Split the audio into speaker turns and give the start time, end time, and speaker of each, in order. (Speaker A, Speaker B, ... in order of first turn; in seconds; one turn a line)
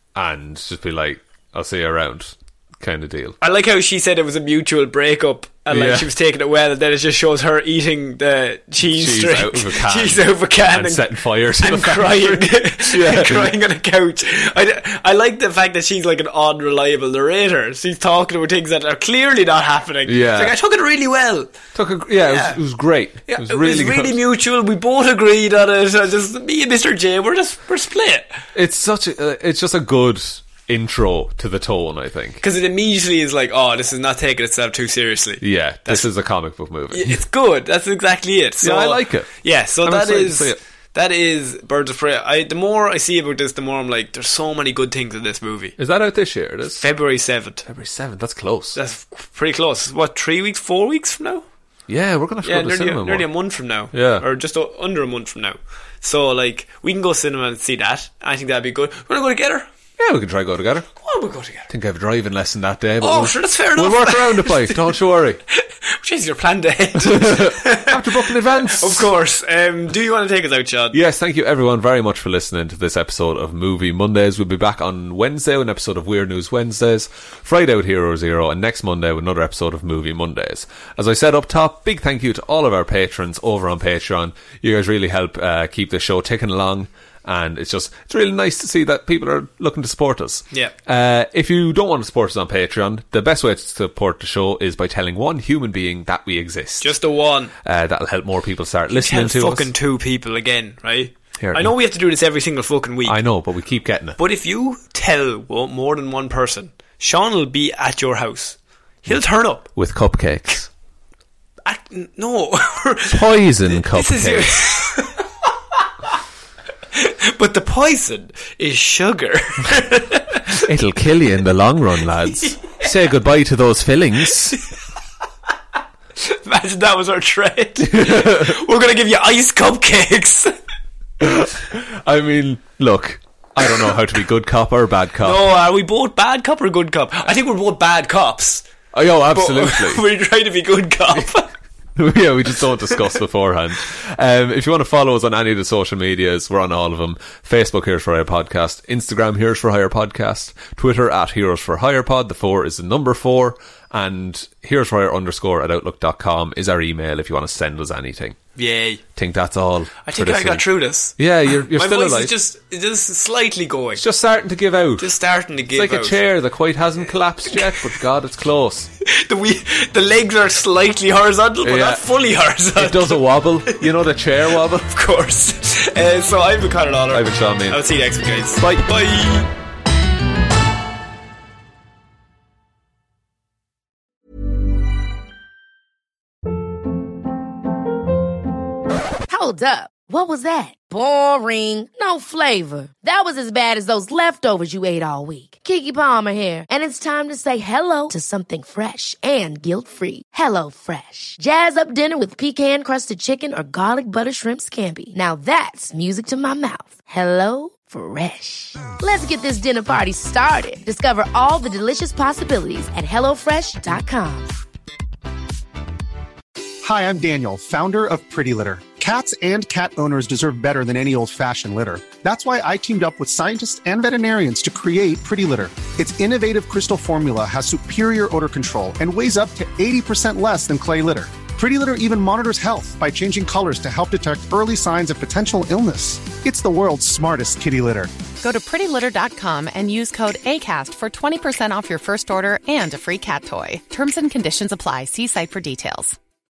Speaker A: 0.1-3.4
Speaker B: 3.4-21.5
Speaker A: 5.7-6.1
Speaker A: 8.8-13.5
Speaker A: 20.1-20.5
Speaker A: 21.7-24.2
Speaker B: 22.2-22.6
Speaker B: 23.3-28.4
Speaker A: 28.5-32.4
Speaker B: 32.4-36.0
Speaker A: 35.4-37.2
Speaker B: 36.9-45.8
Speaker A: 38.6-40.6
Speaker A: 45.8-46.8
Speaker B: 46.8-47.6
Speaker A: 47.6-48.8
Speaker B: 48.7-51.4
Speaker A: 51.9-53.2
Speaker B: 52.4-59.7
Speaker A: 53.9-54.2
Speaker A: 60.0-60.9
Speaker B: 61.0-61.7
Speaker A: 61.7-65.4
Speaker B: 63.0-64.8
Speaker B: 65.5-71.0
Speaker A: 67.0-69.1
Speaker A: 70.9-97.0
Speaker B: 96.8-97.5
Speaker A: 97.6-99.7
Speaker B: 98.9-103.2
Speaker A: 101.4-101.7
Speaker A: 103.0-104.2
Speaker B: 104.2-109.7
Speaker A: 109.1-110.7
Speaker B: 111.7-115.2
Speaker A: 113.1-114.8
Speaker B: 116.9-120.6
Speaker A: 120.6-124.6
Speaker B: 122.3-122.9
Speaker B: 126.2-130.5
Speaker A: 127.8-128.6
Speaker A: 131.2-135.4
Speaker B: 135.2-138.6
Speaker A: 138.9-140.0
Speaker B: 139.3-141.5
Speaker A: 141.9-158.4
Speaker B: 158.6-159.0
Speaker A: 159.2-162.3
Speaker B: 160.0-164.0
Speaker A: 164.0-165.1
Speaker B: 165.0-166.2
Speaker A: 165.7-168.9
Speaker B: 169.0-173.8
Speaker A: 171.6-172.1
Speaker A: 172.7-174.9
Speaker B: 174.7-179.5
Speaker A: 177.1-177.8
Speaker A: 178.6-178.9
Speaker C: 189.3-214.5
Speaker D: 216.8-238.1
Speaker E: 238.4-246.2